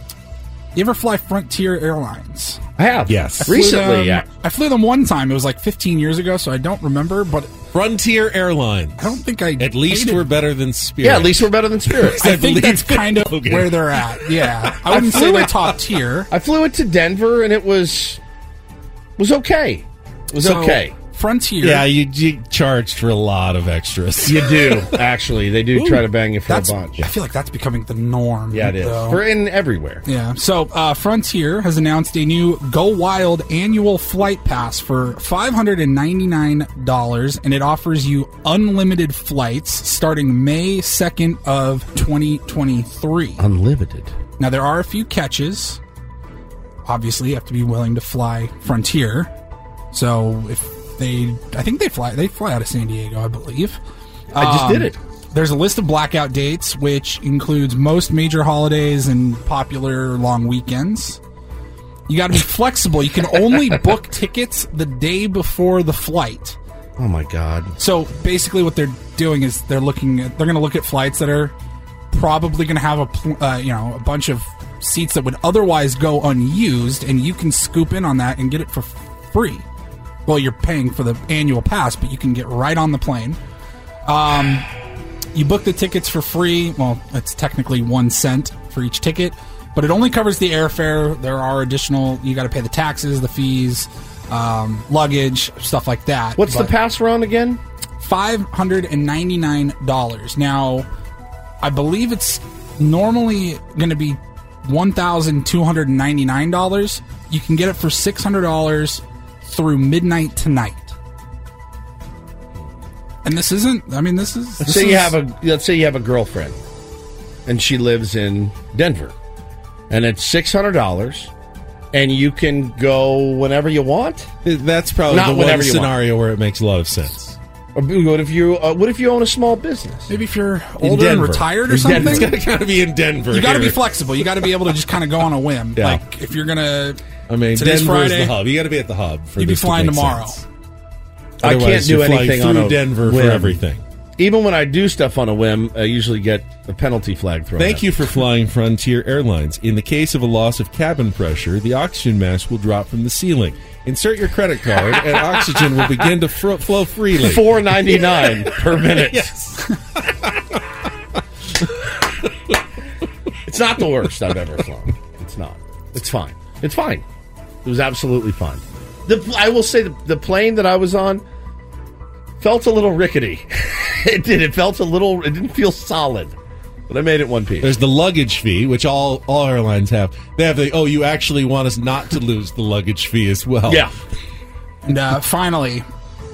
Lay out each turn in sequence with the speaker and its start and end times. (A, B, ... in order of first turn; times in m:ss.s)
0:00.8-0:02.6 A
0:02.8-0:04.3 B
0:03.1-0:03.6 C
0:03.4-0:07.5 A
0:07.7-0:15.3 C
0:09.0-0:10.3 A
0:11.0-0:12.2 B
0:12.2-0:16.3 A
0:14.9-0:15.6 B
0:16.3-0:18.2 B
0:19.2-0:20.9 B
0:20.4-0:21.9 A
0:21.6-0:24.7 C
0:24.2-0:27.0 B
0:25.8-0:29.2 A
0:28.5-0:30.0 B
0:30.1-0:43.4 A
0:43.4-0:44.2 B
0:44.4-0:45.8 A
0:46.8-0:49.3 A
0:49.9-0:53.8 A
0:54.3-0:55.0 B
0:54.3-1:01.2 A
1:02.1-1:06.6 A
1:07.0-1:07.8 B
1:07.8-1:11.5 A
1:12.1-1:19.7 A
1:20.3-1:23.4 A
1:24.1-1:24.7 A
1:25.4-1:36.7 A
1:36.4-1:37.6 B
1:38.0-1:40.9 A
1:41.6-1:51.0 A
1:53.2-1:55.2 A
1:54.6-1:56.6 B
1:57.5-1:59.2 B
1:59.9-2:01.3 B
2:01.9-2:04.3 B
2:04.4-2:07.4 C
2:05.1-2:06.0 B
2:07.8-2:10.1 B
2:10.1-2:12.3 A
2:10.8-2:13.8 C
2:11.7-2:12.3 B
2:13.3-2:17.0 A
2:17.3-2:20.4 C
2:17.6-2:18.4 A
2:19.4-2:20.4 A
2:21.4-2:23.6 B
2:21.4-2:23.8 C
2:24.2-2:27.9 B
2:27.6-2:37.4 C
2:35.1-2:35.8 B
2:37.2-2:39.3 B
2:38.8-2:40.6 C
2:43.5-2:47.0 B
2:47.6-2:51.2 B
2:52.4-2:56.4 B
2:56.9-2:57.8 B
2:57.6-3:03.9 C
3:03.7-3:03.9 B
3:04.9-3:05.8 A